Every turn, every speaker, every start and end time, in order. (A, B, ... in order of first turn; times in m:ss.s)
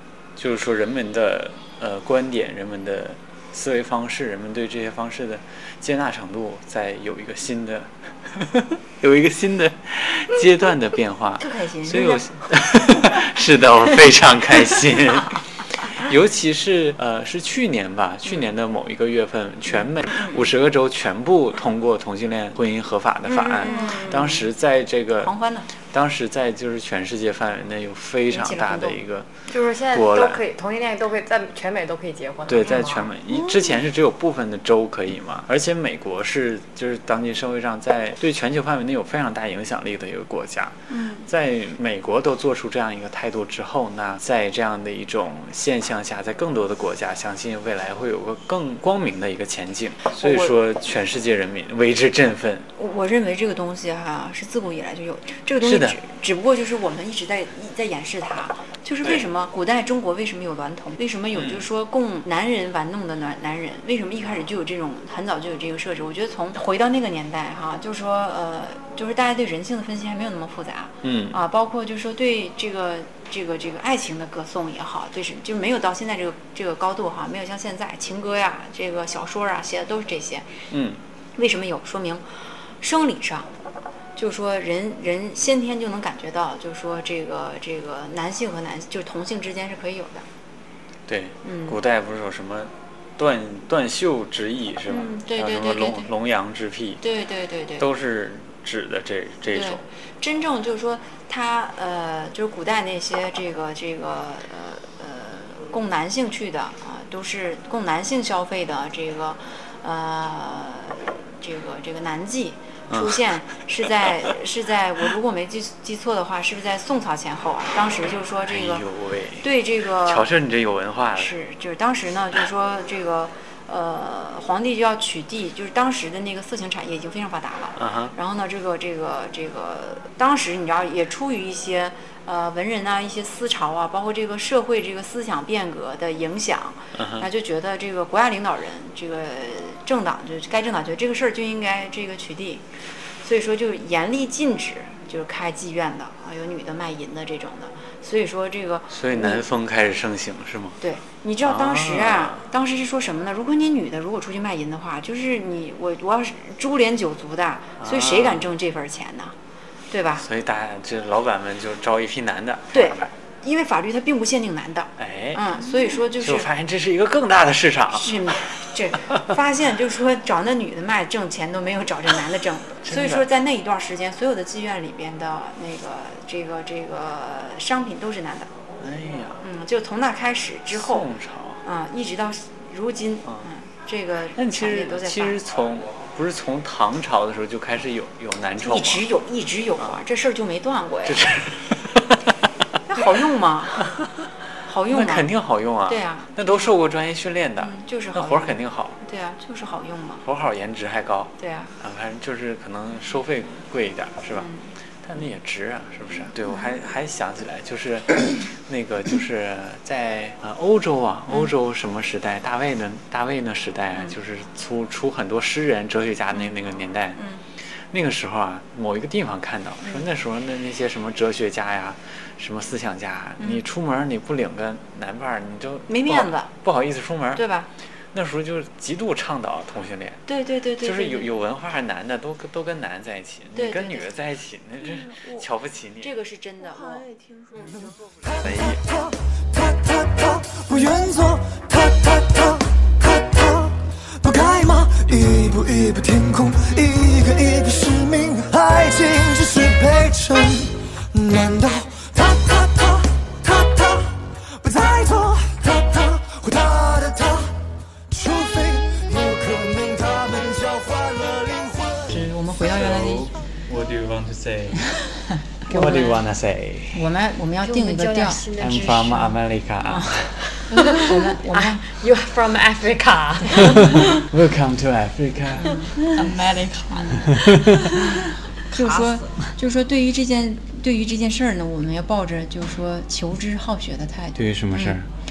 0:00.4-0:29.3 A
0:11.4-0:12.2 B
0:20.1-0:20.4 B
0:23.3-0:24.4 B
0:23.6-0:24.1 C
0:25.2-0:25.7 B
0:28.3-0:29.0 B
0:29.5-0:33.1 D
0:29.9-0:30.4 A
0:32.5-0:52.7 A
0:40.9-0:41.2 C
0:50.1-0:50.6 B
0:52.8-1:20.6 B
0:55.6-0:56.0 A
1:01.4-1:01.6 A
1:11.0-1:11.4 A
1:20.7-1:21.0 A
1:21.4-1:22.2 B
1:22.8-1:23.5 B
1:24.2-1:30.2 B
1:31.1-1:37.0 A
1:31.4-1:31.8 B
1:34.9-1:36.1 B
1:37.0-1:37.9 B
1:37.8-1:39.8 A
1:39.5-1:58.8 B
1:52.9-1:53.2 A
1:58.5-1:59.5 A
1:59.4-2:00.3 B
2:00.0-2:01.3 A
2:01.1-2:22.7 B
2:07.8-2:08.1 A
2:16.9-2:17.3 A
2:23.2-2:29.4 B
2:28.9-2:30.8 A
2:30.8-2:39.3 B
2:31.4-2:32.4 A
2:37.8-2:38.5 A
2:39.9-2:40.2 B
2:40.2-2:43.1 A
2:42.7-2:46.5 B
2:45.0-2:48.3 A
2:47.9-2:58.5 B
2:52.8-2:53.2 A
2:58.8-2:59.4 A
2:59.4-3:01.1 B
3:00.7-3:01.6 A
3:01.6-3:05.4 B
3:04.3-3:09.0 A
3:08.6-3:11.3 B
3:11.0-3:12.3 A
3:12.9-3:13.9 B
3:14.6-3:15.3 B
3:14.9-3:19.0 A
3:15.9-3:16.7 B
3:17.6-3:20.2 B
3:20.2-3:24.5 A
3:21.4-3:21.7 B
3:24.3-3:24.7 B
3:25.0-3:47.4 A
3:45.9-3:46.5 B
3:47.3-3:47.7 B
3:48.1-3:50.3 A
3:50.3-3:51.3 B
3:50.8-3:56.1 A
3:53.5-3:54.1 B
3:54.8-3:55.4 C
3:56.0-3:57.1 B
3:56.7-3:57.9 C
3:57.6-4:17.6 E
3:58.4-3:58.8 A
4:18.1-4:22.1 E
4:22.1-4:23.3 B
4:22.1-4:24.8 A
4:25.7-4:27.0 A
4:25.7-4:26.0 B
4:25.7-4:26.2 D
4:26.9-4:30.2 B
4:27.6-4:29.2 D
4:28.6-4:30.5 A
4:30.7-4:31.8 B
4:30.7-4:34.0 D
4:33.6-4:35.8 A
4:35.5-4:37.3 B
4:36.1-4:37.1 D
4:37.2-4:37.9 A
4:38.7-4:45.0 B
4:38.9-4:39.2 D
4:44.4-4:45.1 A